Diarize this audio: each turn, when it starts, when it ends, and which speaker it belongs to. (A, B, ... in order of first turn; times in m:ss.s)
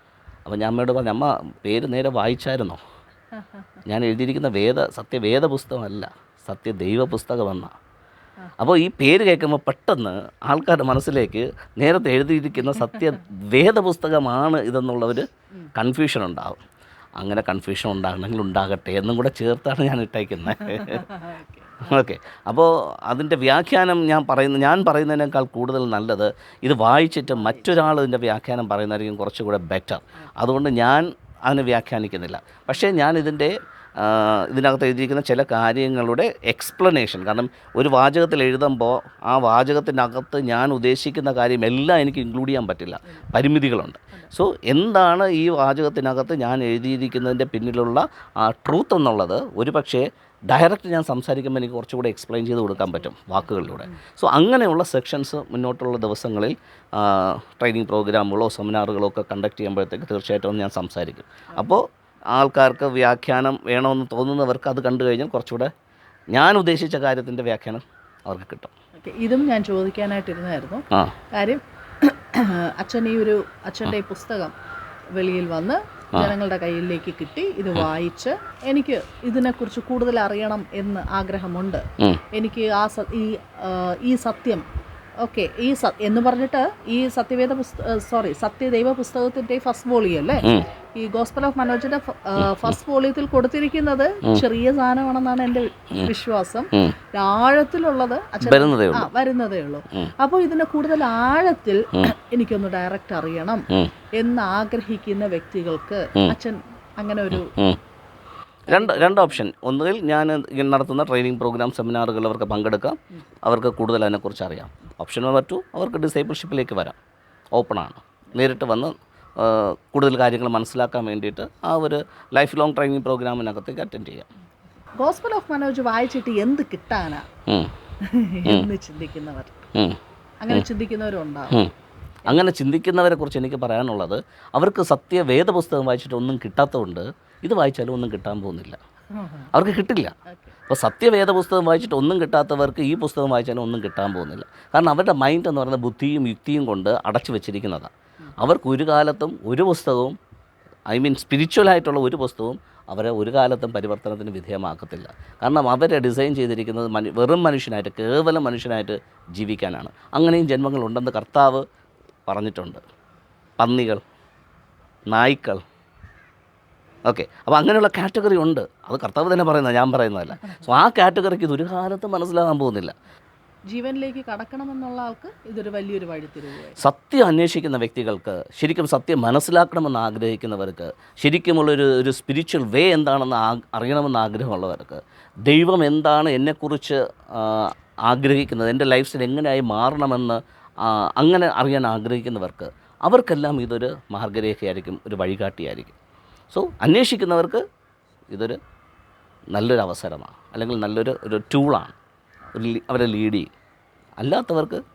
0:00.5-0:02.8 A
0:03.3-0:03.7 B
0:03.8-0:07.7 A
0:08.6-0:16.6 A
0:17.2-0:21.0 A
0:20.6-0:21.8 B
0:21.8-1:01.8 A
0:27.3-0:27.7 B
0:52.8-0:54.0 B
1:02.3-1:05.7 A
1:06.3-1:08.7 A
1:09.0-1:14.5 B
1:15.1-1:24.6 B
1:25.2-1:47.5 B
1:32.4-1:32.7 A
1:38.4-1:39.1 A
1:47.3-1:47.8 A
1:48.7-1:57.0 A
1:48.7-1:49.4 B
1:57.5-2:04.3 A
2:05.0-2:07.3 B
2:07.5-2:07.7 A
2:08.0-2:09.7 B
2:10.4-2:11.6 B
2:12.3-2:18.8 A
2:19.1-2:19.5 B
2:19.5-2:20.1 A
2:20.3-2:20.5 B
2:20.7-2:30.2 A
2:30.9-2:41.6 A
2:42.2-2:42.8 A
2:43.6-2:44.0 A
2:45.1-2:45.6 A
2:47.1-2:52.9 A
2:53.7-2:56.8 B
2:56.8-3:15.9 A
3:16.5-3:17.6 A
3:18.3-3:18.6 A
3:19.5-3:21.9 A
3:22.5-3:23.5 A
3:24.2-3:24.8 A